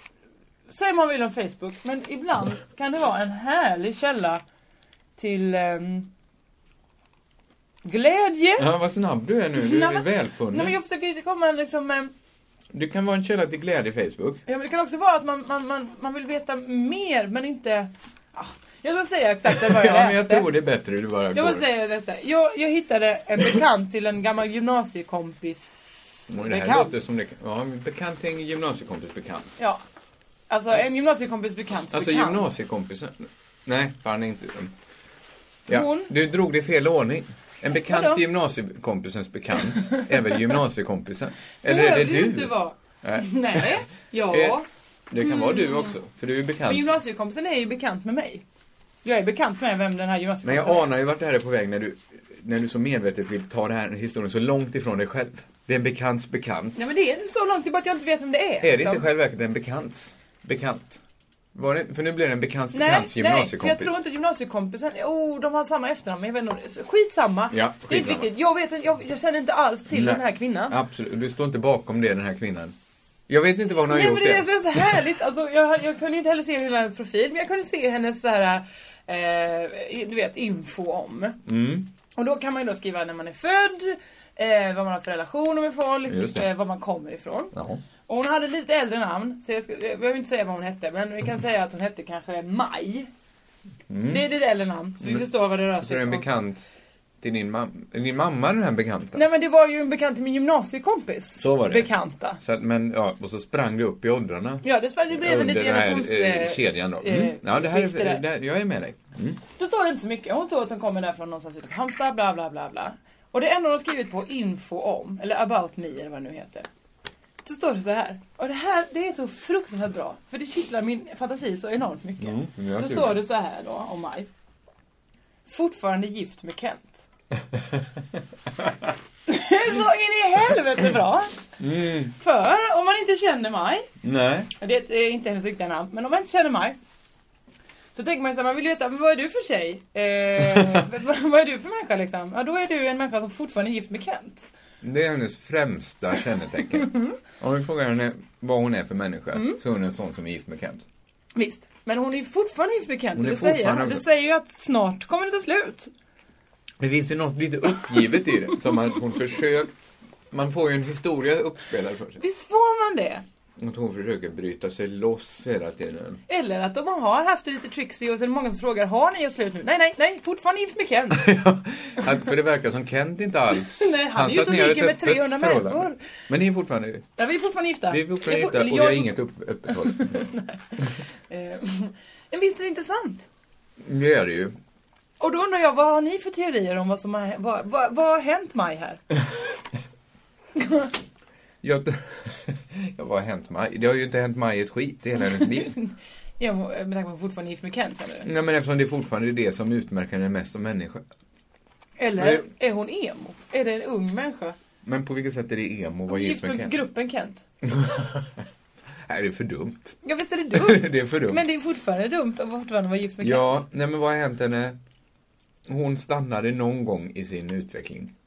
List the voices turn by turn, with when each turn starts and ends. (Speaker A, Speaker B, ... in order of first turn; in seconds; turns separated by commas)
Speaker A: 0.7-4.4, Speaker A: 5.2-6.1, Speaker A: 7.8-8.7, Speaker B: 8.6-10.8, Speaker A: 9.5-12.1, Speaker B: 12.7-14.4, Speaker A: 14.5-20.5, Speaker B: 19.4-21.6, Speaker A: 21.3-26.9, Speaker B: 26.3-29.6, Speaker A: 30.5-32.4, Speaker B: 31.9-34.7, Speaker B: 35.7-44.6, Speaker A: 35.7-36.1, Speaker A: 37.7-38.2, Speaker A: 41.6-44.7, Speaker B: 45.1-47.0, Speaker A: 45.2-45.9, Speaker A: 46.6-48.4, Speaker A: 49.0-50.9, Speaker B: 50.4-56.9, Speaker A: 56.8-59.0, Speaker B: 58.6-61.0, Speaker B: 61.5-64.0, Speaker A: 62.7-70.8, Speaker B: 67.5-68.3, Speaker B: 69.9-72.8, Speaker B: 73.3-75.0, Speaker A: 73.8-81.4, Speaker B: 81.5-81.9, Speaker A: 82.1-87.5, Speaker B: 86.1-86.4, Speaker B: 87.5-87.8, Speaker A: 88.1-93.1, Speaker B: 93.9-94.2, Speaker A: 94.0-96.2, Speaker B: 95.0-99.2, Speaker A: 99.1-102.4, Speaker B: 101.4-109.4, Speaker A: 104.6-108.2, Speaker A: 109.6-116.7, Speaker A: 117.4-124.3, Speaker B: 122.2-123.2, Speaker A: 125.5-127.0, Speaker A: 129.3-131.4, Speaker B: 131.6-132.1, Speaker A: 132.1-133.9, Speaker B: 134.0-134.5, Speaker A: 134.6-136.8, Speaker A: 137.9-144.4, Speaker B: 144.8-150.9, Speaker A: 146.8-147.1, Speaker A: 151.3-155.9, Speaker B: 153.1-154.1, Speaker B: 156.8-162.2, Speaker A: 162.2-163.2, Speaker B: 163.6-166.2, Speaker A: 166.3-171.3, Speaker B: 171.1-177.1, Speaker A: 173.7-176.0, Speaker A: 177.2-179.2, Speaker B: 177.9-180.3, Speaker A: 179.7-183.3, Speaker B: 183.8-184.6, Speaker A: 185.2-189.0, Speaker A: 190.6-190.9, Speaker B: 191.6-195.7, Speaker A: 195.2-198.3, Speaker B: 198.2-201.0, Speaker A: 202.0-204.6, Speaker B: 202.2-202.5, Speaker B: 204.8-206.8, Speaker A: 206.1-207.4, Speaker B: 207.6-208.4, Speaker B: 209.1-210.0, Speaker A: 210.0-213.6, Speaker B: 210.5-211.4, Speaker B: 213.2-214.8, Speaker B: 215.7-218.1